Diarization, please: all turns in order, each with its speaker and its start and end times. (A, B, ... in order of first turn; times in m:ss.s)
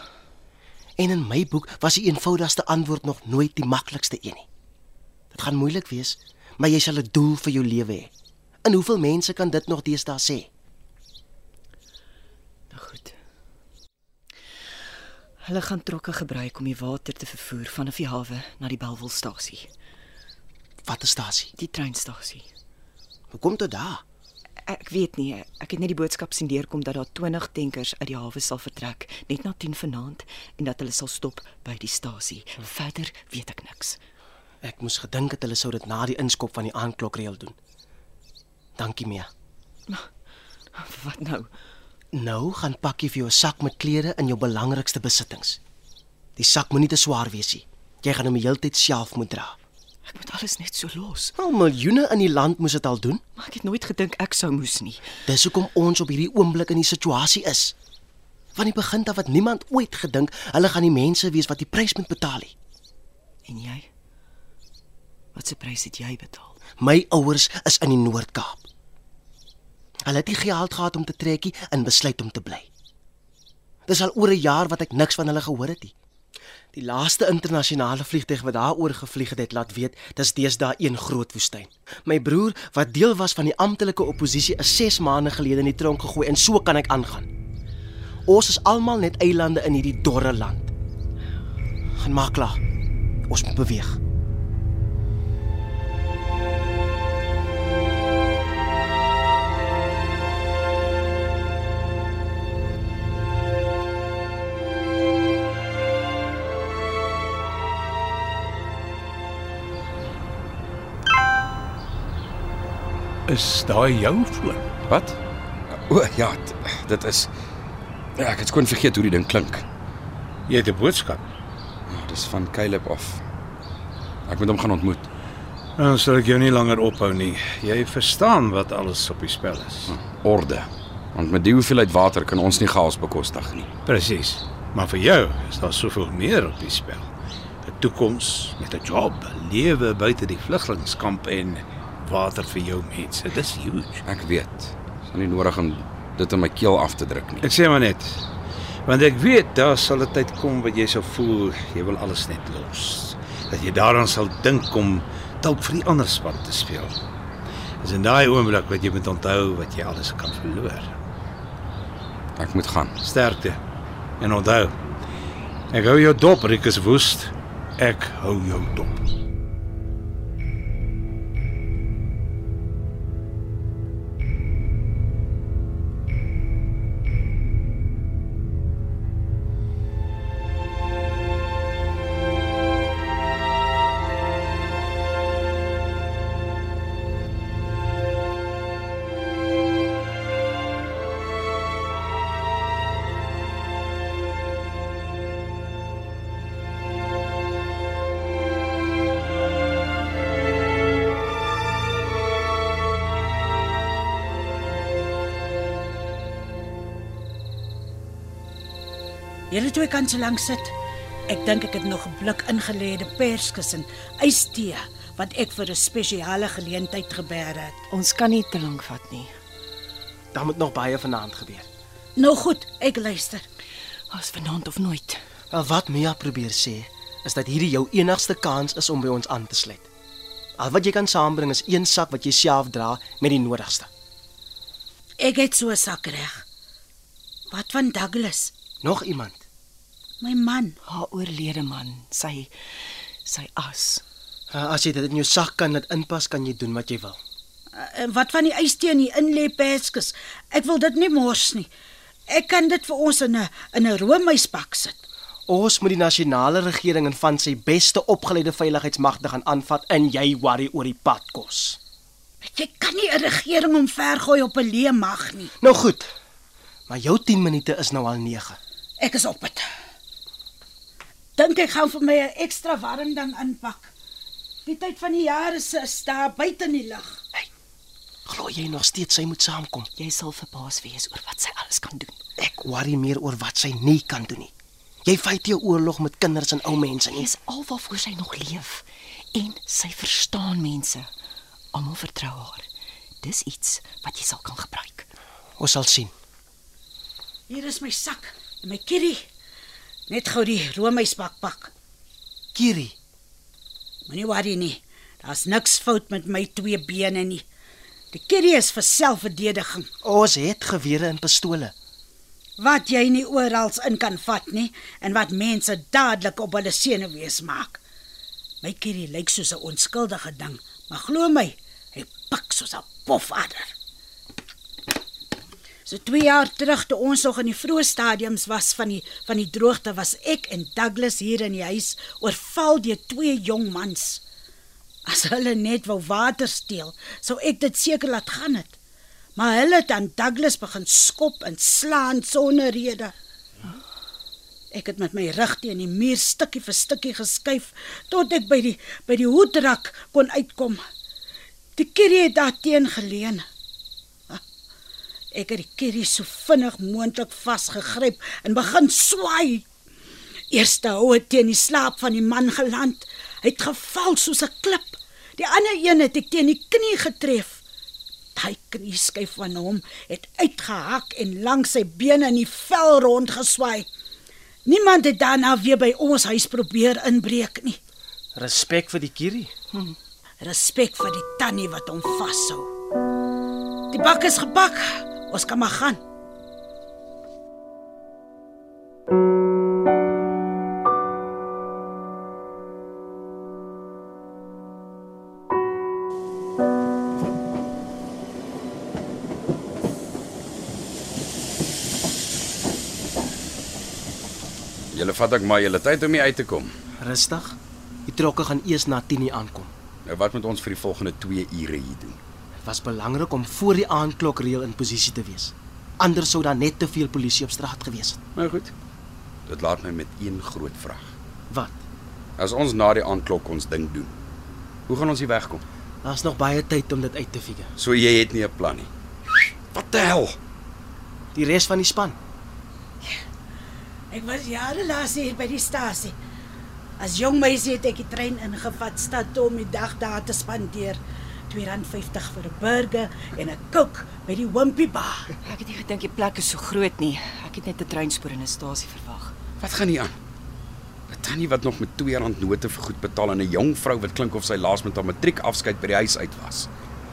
0:01.0-0:04.4 A
0:05.3-0:08.1 A
0:08.6-0:10.5 A
0:12.7-0:13.2 B
0:15.4-0:19.7 B
0:20.8-0:21.5 A
0:21.5-0:22.5 B
0:23.3-0:24.0 A
0:24.6-0:34.0 B
0:34.6-0:37.6 A
0:38.8-0:39.3 A
0:40.7-0:41.5 B
0:42.1-0:45.6 A
0:46.4-0:49.6 A
0:50.0-0:51.3 B
0:51.4-0:53.2 A
0:53.4-0:55.0 B
0:55.3-0:57.7 A
0:58.5-1:02.5 A
1:03.4-1:03.9 B
1:05.3-1:06.6 B
1:06.8-1:08.7 A
1:10.1-1:12.7 A
1:13.9-1:15.9 A
1:16.7-1:27.3 A
1:28.3-1:30.7 A
1:32.0-1:32.6 A
1:33.3-1:34.0 A
1:53.3-1:54.7 C
1:54.9-1:55.2 D
1:55.7-1:57.3 D
1:58.2-1:59.6 D
2:00.5-2:01.2 C
2:01.9-2:03.2 D
2:04.3-2:05.1 D
2:05.8-2:09.9 C
2:09.9-2:13.7 D
2:13.8-2:17.1 C
2:17.6-2:24.0 C
2:24.0-2:27.5 D
2:27.4-2:28.3 C
2:28.8-2:37.0 C
2:37.8-2:41.0 C
2:42.4-2:42.9 D
2:43.0-2:43.6 C
2:44.2-2:44.7 C
2:45.7-2:49.1 C
3:29.5-3:30.7 E
3:31.3-3:37.8 E
3:37.9-3:39.3 B
3:40.3-3:41.7 A
3:42.2-3:43.4 E
3:44.1-3:45.2 B
3:45.5-3:49.9 A
3:50.6-3:53.9 A
3:55.2-3:56.4 E
3:57.5-3:58.5 E
3:58.8-3:59.4 A
4:00.2-4:00.8 E
4:00.8-4:02.5 B
4:03.2-4:04.0 B
4:04.5-4:07.2 A
4:07.7-4:11.7 E
4:12.3-4:15.0 E
4:15.5-4:21.8 A
4:22.4-4:25.5 E
4:25.6-4:26.1 A
4:26.9-4:28.6 A
4:29.0-4:29.6 E
4:31.4-4:33.9 E
4:34.6-4:37.2 E
4:38.2-4:39.9 A
4:40.0-4:42.2 B
4:42.4-4:44.5 A
4:45.0-4:47.3 A
4:47.1-4:51.1 B
4:51.7-4:52.7 B
4:53.2-4:55.1 B
4:55.6-4:56.1 A
4:57.5-4:59.2 E
5:00.1-5:01.7 E
5:02.5-5:03.0 A
5:04.1-5:07.4 E
5:08.1-5:09.9 E
5:10.0-5:11.7 A
5:12.6-5:17.8 E
5:18.6-5:23.7 E
5:25.8-5:34.2 E
5:35.0-5:38.8 E
5:39.4-5:43.1 E
5:44.7-5:50.8 E
5:51.8-5:53.4 E
5:55.3-5:59.6 E
6:00.5-6:07.6 E
6:08.3-6:13.9 E
6:14.6-6:17.8 E
6:18.4-6:19.5 A
6:20.4-6:22.7 E
6:23.9-6:26.0 E
6:44.9-6:46.7 D
6:47.0-6:49.7 A
6:50.0-6:52.2 D
6:52.6-6:58.2 A
6:58.4-6:58.7 D
6:59.5-7:01.1 D
7:01.5-7:01.8 A
7:02.4-7:04.1 D
7:04.9-7:05.6 D
7:06.0-7:07.7 A
7:07.8-7:10.4 D
7:11.3-7:12.2 A
7:14.1-7:16.2 E
7:17.0-7:25.3 E
7:25.4-7:29.3 B
7:29.6-7:30.2 D
7:31.1-7:36.7 D